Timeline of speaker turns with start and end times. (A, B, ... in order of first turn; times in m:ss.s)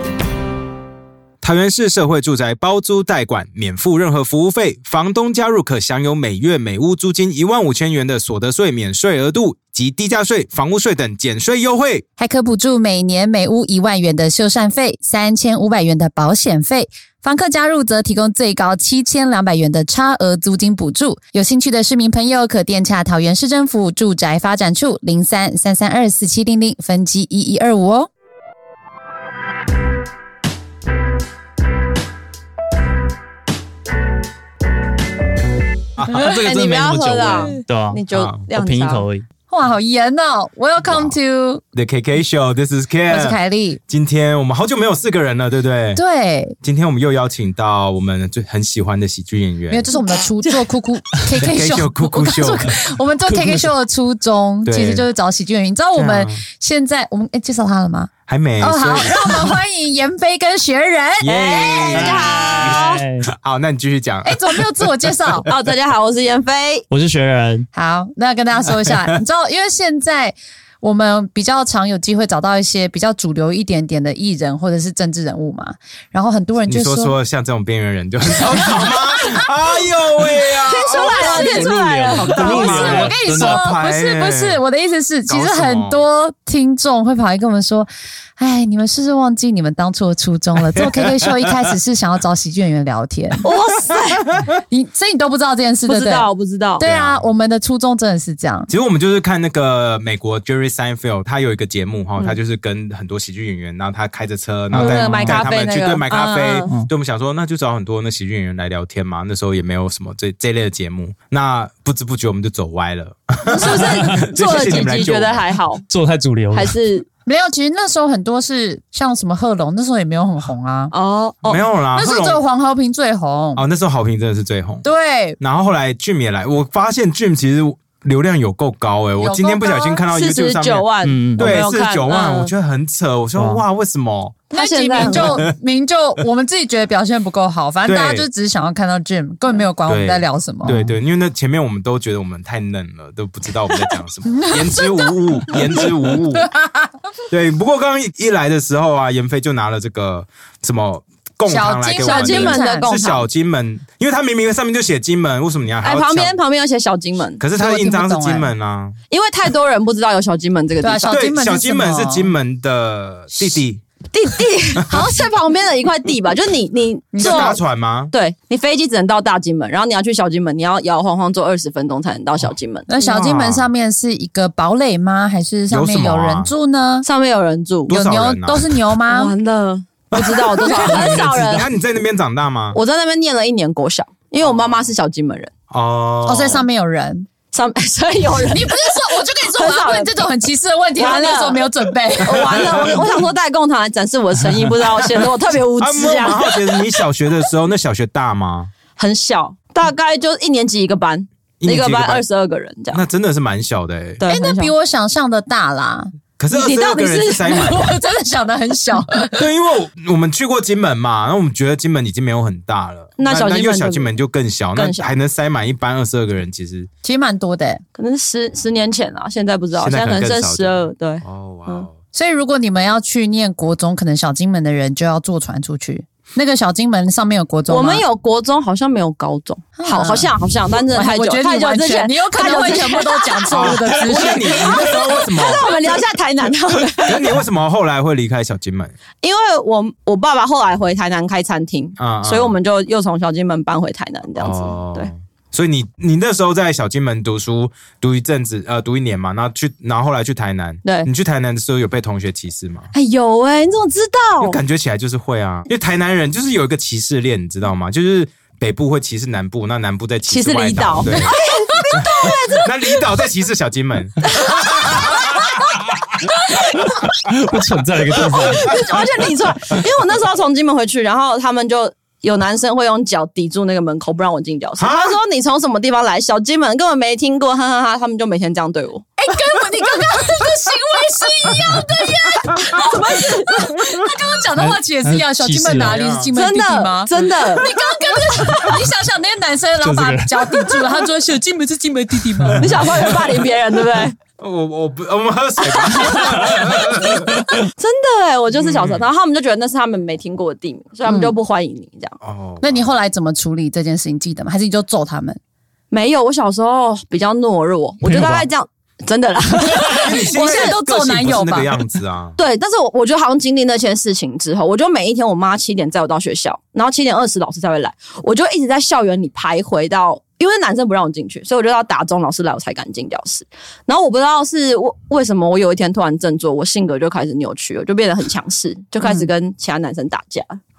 0:01.4-0:12.0 A
0:12.2-0:28.1 B
0:36.0-0:39.2 C
0:36.0-0:39.1 D
0:38.1-0:38.4 A
0:39.5-0:41.6 B
0:40.8-0:41.1 A
0:41.7-0:46.0 A
0:43.1-0:43.8 B
0:45.9-0:46.6 B
0:46.6-0:49.9 A
0:49.7-1:02.0 B
0:51.4-0:52.7 A
0:54.6-0:55.0 A
0:55.9-0:56.4 A
0:58.3-0:59.5 A
1:01.2-1:04.6 A
1:01.3-1:03.0 D
1:01.9-1:03.3 C
1:04.2-1:05.5 B
1:05.4-1:06.8 D
1:06.9-1:07.7 C
1:07.7-1:17.1 B
1:16.7-1:24.6 A
1:18.7-1:19.4 B
1:20.6-1:22.7 D
1:21.2-1:21.7 B
1:21.2-1:23.6 C
1:22.4-1:33.4 B
1:25.3-1:26.0 A
1:30.8-1:31.5 A
1:33.4-1:34.3 D
1:34.7-1:36.3 B
1:35.9-1:36.8 D
1:36.8-1:37.2 A
1:36.8-1:38.7 B
1:38.7-1:55.4 A
1:44.7-1:45.5 C
1:44.7-1:46.7 D
1:53.4-1:54.2 B
1:53.5-1:55.8 D
1:54.1-1:54.8 C
1:55.9-1:56.7 C
1:56.5-1:57.0 D
1:57.2-2:00.9 B
2:00.9-2:01.6 D
2:01.4-2:02.4 A
2:01.9-2:03.6 B
2:03.6-2:04.8 A
2:04.8-2:05.4 B
2:05.4-2:14.4 A
2:09.2-2:10.0 B
2:10.1-2:12.5 D
2:11.0-2:11.6 C
2:13.4-2:13.6 C
2:14.5-2:15.5 D
2:14.5-2:20.7 B
2:15.0-2:15.5 A
2:17.8-2:18.2 A
2:19.9-2:26.5 A
2:20.6-2:21.0 C
2:24.4-2:25.1 B
2:26.4-2:26.9 B
2:27.3-2:36.4 A
2:31.5-2:33.0 B
2:32.0-2:33.2 D
2:35.8-2:37.4 D
2:37.4-2:39.0 A
2:37.6-2:38.5 B
2:39.1-2:41.2 D
2:40.8-2:42.3 B
2:41.1-2:43.8 A
2:44.1-2:47.6 D
2:44.8-2:45.1 A
2:47.1-2:47.6 B
2:47.2-2:48.1 A
2:48.1-2:52.9 D
2:52.9-2:57.0 B
2:53.0-2:53.7 A
2:55.7-2:56.5 A
2:57.0-2:57.9 D
2:57.9-2:58.8 A
2:57.9-2:59.3 B
2:59.1-3:01.7 D
3:00.1-3:02.8 A
3:02.7-3:05.5 D
3:04.4-3:04.7 A
3:05.7-3:06.6 A
3:06.2-3:07.3 B
3:07.5-3:10.2 D
3:08.5-3:12.8 B
3:11.0-3:11.6 D
3:12.2-3:17.0 D
3:12.6-3:12.9 A
3:15.8-3:18.7 A
3:19.0-3:23.0 D
3:21.6-3:22.2 A
3:22.9-3:24.2 A
3:24.2-3:24.7 D
3:24.3-3:26.1 B
3:26.4-3:27.9 A
3:26.5-3:27.7 D
3:27.5-3:29.4 B
3:29.3-3:36.9 A
3:33.2-3:34.1 D
3:34.8-3:35.1 D
3:37.0-3:37.8 B
3:38.0-3:41.9 D
3:39.8-3:41.9 A
3:42.1-3:48.0 B
3:47.7-3:57.4 D
3:49.8-3:50.3 B
3:50.9-3:54.8 B
3:53.5-3:55.8 A
3:57.0-3:58.9 A
3:59.2-4:05.1 D
4:02.0-4:02.6 A
4:04.4-4:12.9 A
4:10.8-4:11.1 D
4:12.9-4:14.6 D
4:14.4-4:21.4 A
4:20.3-4:23.0 D
4:21.9-4:25.7 A
4:24.3-4:25.5 D
4:26.5-4:26.8 D
4:26.8-4:29.1 C
4:28.2-4:39.0 D
4:34.8-4:35.2 A
4:39.2-4:52.7 B
4:42.6-4:43.8 D
4:44.5-4:46.0 C
4:45.7-4:46.3 A
4:46.3-4:47.7 D
4:49.8-4:50.9 C
4:52.3-4:52.6 C
4:52.6-4:54.2 D
4:54.4-4:57.5 A
4:55.6-5:02.2 D
4:58.6-4:59.1 A
5:01.1-5:01.3 B
5:02.2-5:02.9 A
5:02.6-5:05.4 B
5:05.9-5:10.7 D
5:08.0-5:08.5 C
5:09.9-5:12.4 A
5:10.2-5:11.8 B
5:12.4-5:30.6 D
5:29.0-5:29.3 B